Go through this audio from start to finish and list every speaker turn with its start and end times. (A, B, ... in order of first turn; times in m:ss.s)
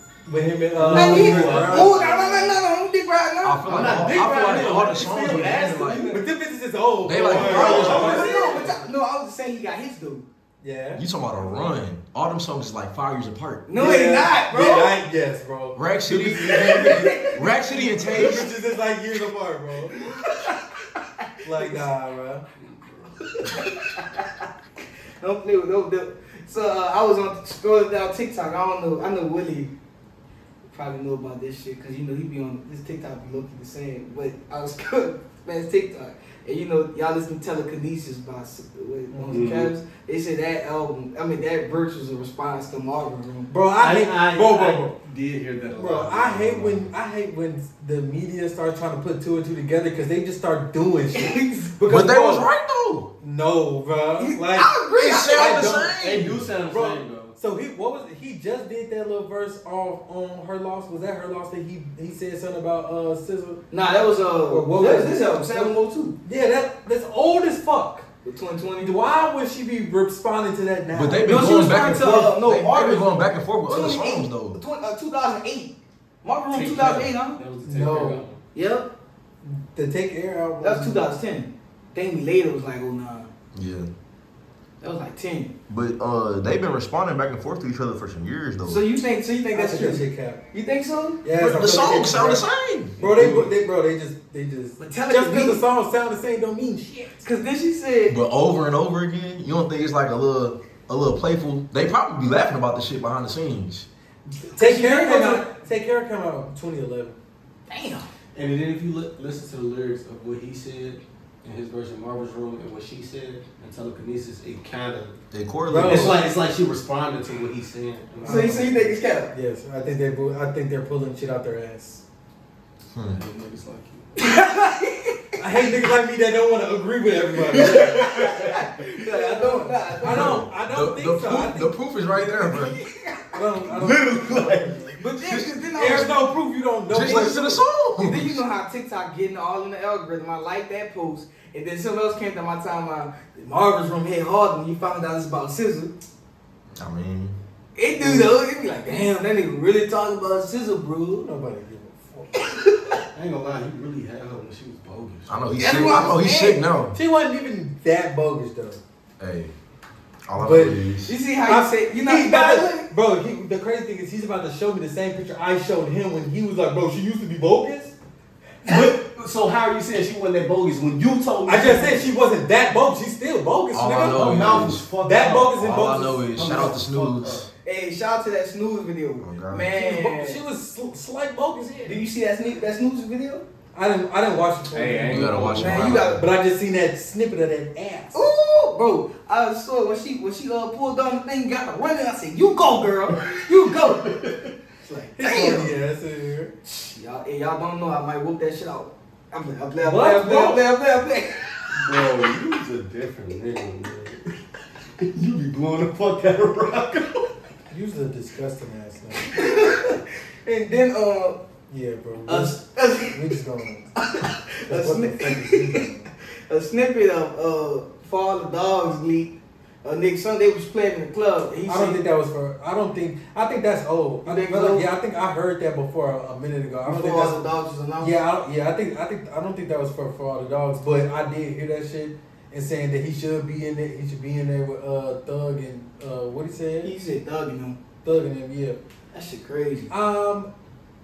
0:00.3-0:02.5 A
0:00.8-0:02.4 B
0:00.9-0:03.7 C
0:03.4-0:06.2 D
0:03.7-0:06.1 B
0:04.0-0:08.8 A
0:05.3-0:06.2 C
0:07.1-0:08.8 D
0:07.3-0:10.2 C
0:07.5-0:08.6 B
0:10.6-0:11.0 A
0:11.0-0:13.6 D
0:13.7-0:15.0 C
0:13.8-0:15.8 A
0:15.8-0:18.5 D
0:16.1-0:18.4 C
0:16.5-0:17.2 A
0:18.0-0:20.0 A
0:19.9-0:20.6 C
0:21.4-0:22.4 A
0:22.6-0:23.2 B
0:23.3-0:24.3 C
0:25.2-0:29.7 C
0:30.7-0:43.5 C
0:39.1-0:39.5 A
0:39.3-0:39.7 B
0:43.5-0:45.0 A
0:43.8-0:46.9 B
0:45.8-0:52.5 A
0:51.1-0:51.7 C
0:51.8-0:53.1 D
0:53.2-0:54.7 A
0:54.2-0:55.6 C
0:55.0-0:56.4 D
0:55.3-0:56.0 A
0:56.0-0:57.3 B
0:56.6-1:03.6 A
1:03.7-1:06.2 C
1:04.5-1:05.7 A
1:06.2-1:08.1 A
1:08.2-1:09.0 C
1:08.8-1:11.4 A
1:10.9-1:14.6 D
1:11.2-1:17.4 C
1:16.5-1:18.4 B
1:17.6-1:18.2 A
1:18.5-1:18.9 C
1:19.4-1:21.0 A
1:20.6-1:23.3 C
1:23.5-1:23.9 D
1:24.8-1:25.5 C
1:25.7-1:28.8 D
1:28.6-1:31.2 C
1:29.5-1:30.4 A
1:31.2-1:32.4 A
1:31.3-1:32.9 D
1:33.0-1:33.6 B
1:33.0-1:37.3 A
1:34.8-1:35.6 C
1:37.2-1:38.2 C
1:38.1-1:43.9 D
1:44.4-1:45.5 C
1:44.6-1:47.2 A
1:47.7-1:48.1 C
1:48.3-1:55.2 B
1:55.3-1:56.2 D
1:55.7-1:56.2 A
1:55.8-1:58.9 B
1:58.2-1:58.6 A
1:58.2-1:59.3 C
1:59.3-2:02.0 A
2:02.9-2:03.2 D
2:03.1-2:04.1 B
2:04.2-2:05.2 C
2:05.4-2:08.1 A
2:07.5-2:08.5 B
2:07.7-2:10.4 C
2:09.2-2:12.5 A
2:10.0-2:12.8 D
2:12.5-2:13.4 C
2:13.3-2:14.9 A
2:13.6-2:14.9 B
2:14.6-2:15.7 D
2:15.0-2:16.3 C
2:15.8-2:17.6 A
2:16.9-2:18.4 D
2:16.9-2:25.9 C
2:26.8-2:27.4 D
2:27.8-2:31.2 C
2:28.0-2:28.3 A
2:31.2-2:32.4 A
2:32.3-2:33.0 C
2:33.1-2:36.0 B
2:35.3-2:37.0 D
2:35.6-2:36.6 C
2:36.9-2:38.8 A
2:39.2-2:39.5 D
2:40.3-2:41.1 D
2:40.4-2:40.8 A
2:41.1-2:42.9 C
2:41.4-2:48.0 A
2:48.6-2:52.1 B
2:51.5-2:56.7 A
2:53.7-2:54.9 D
2:54.0-2:57.5 B
2:55.6-2:57.5 D
2:57.6-3:00.4 C
2:59.2-2:59.8 D
2:59.7-3:02.0 A
3:01.9-3:03.4 C
3:03.7-3:08.2 A
3:04.7-3:06.1 B
3:05.1-3:06.2 D
3:05.6-3:06.3 C
3:08.1-3:14.2 C
3:14.1-3:14.5 B
3:14.8-3:15.7 C
3:15.2-3:16.5 A
3:16.6-3:21.8 C
3:19.8-3:20.6 A
3:21.8-3:24.4 B
3:25.0-3:27.4 B
3:27.7-3:29.4 A
3:29.2-3:31.4 C
3:31.7-3:33.9 A
3:32.3-3:33.4 C
3:34.0-3:35.9 C
3:34.7-3:36.1 A
3:36.5-3:42.0 C
3:41.7-3:47.4 A
3:44.2-3:44.9 C
3:46.9-3:48.2 C
3:48.0-3:56.9 A
3:56.8-3:57.8 C
3:58.0-3:58.8 A
3:59.1-3:59.9 C
3:59.9-4:00.5 A